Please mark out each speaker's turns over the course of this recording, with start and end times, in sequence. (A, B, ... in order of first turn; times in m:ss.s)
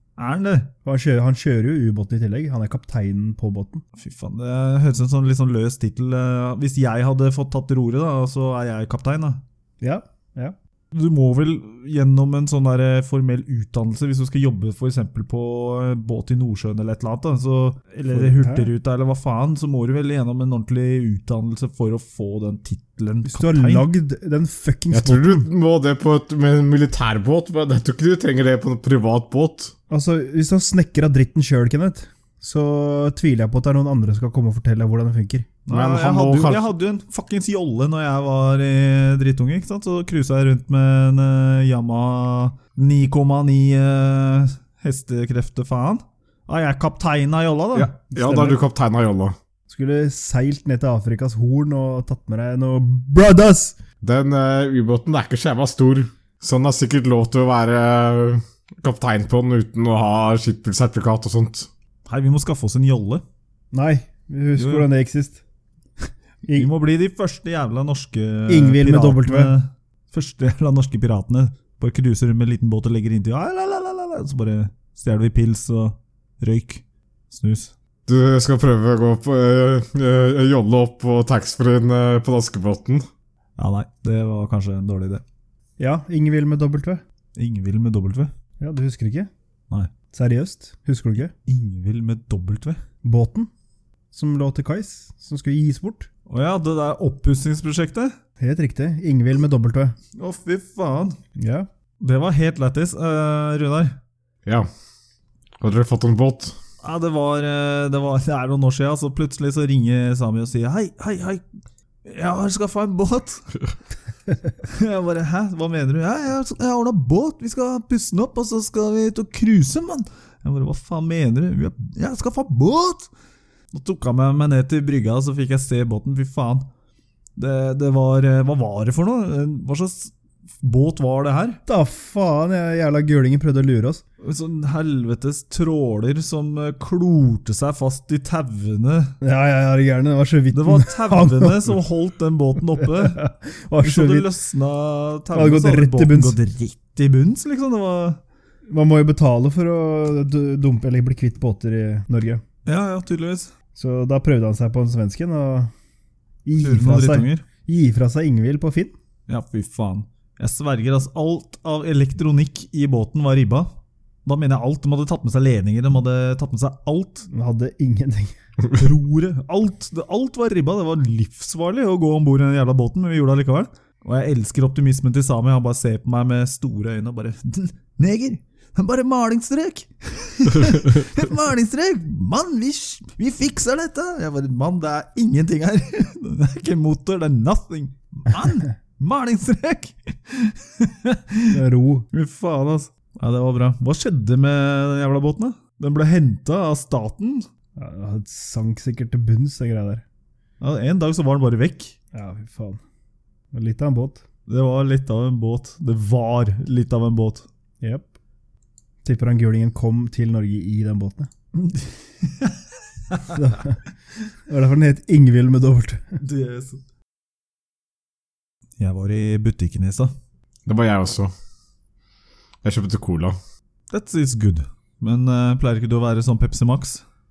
0:00.2-0:00.7 A
0:00.8-0:03.8 B
0:04.0-0:09.4 A
0:09.8-0:10.6 B
0:10.9-0:23.9 A
0:18.1-0:18.7 B
0:23.3-0:25.5 B
0:24.9-0:29.7 C
0:29.9-0:35.5 B
0:35.7-0:47.9 A
0:35.7-0:36.7 C
0:47.8-0:49.4 C
0:48.1-0:48.6 B
0:49.7-0:53.8 B
0:54.0-1:01.7 C
1:02.1-1:03.2 A
1:03.7-1:05.4 B
1:04.6-1:04.9 A
1:06.5-1:17.7 A
1:08.5-1:09.5 B
1:18.1-1:23.1 C
1:23.6-1:25.2 A
1:25.8-1:27.0 B
1:27.4-1:28.3 A
1:28.6-1:29.3 B
1:30.1-1:31.3 B
1:31.4-1:32.8 A
1:33.0-1:33.5 B
1:34.1-1:36.1 B
1:36.3-1:38.1 A
1:38.4-1:40.0 B
1:40.2-1:41.2 A
1:41.4-1:41.7 B
1:42.0-1:44.0 A
1:45.6-1:46.5 C
1:46.8-1:51.4 A
1:52.0-1:53.5 A
1:54.6-2:03.1 A
2:03.7-2:06.7 A
2:07.4-2:11.6 A
2:11.7-2:14.0 B
2:14.2-2:19.2 A
2:19.2-2:21.8 B
2:20.5-2:23.2 A
2:22.8-2:24.3 B
2:23.8-2:28.2 A
2:25.3-2:26.4 B
2:28.7-2:32.4 B
2:32.6-2:33.5 A
2:33.8-2:35.7 B
2:36.4-2:38.9 B
2:36.6-2:37.4 A
2:39.3-2:43.7 A
2:44.2-2:47.3 A
2:47.3-2:48.4 B
2:48.7-3:11.6 A
3:11.5-3:12.1 B
3:12.1-3:17.5 A
3:17.8-3:20.0 B
3:20.6-3:22.0 A
3:22.1-3:22.8 B
3:23.5-3:24.2 B
3:24.5-3:27.5 A
3:27.8-3:28.1 B
3:29.0-3:31.3 B
3:31.6-3:33.4 A
3:33.3-3:33.8 B
3:34.5-3:36.2 B
3:36.2-3:36.8 A
3:38.8-3:40.1 A
3:40.7-3:41.3 C
3:42.6-3:43.4 C
3:43.9-3:47.0 A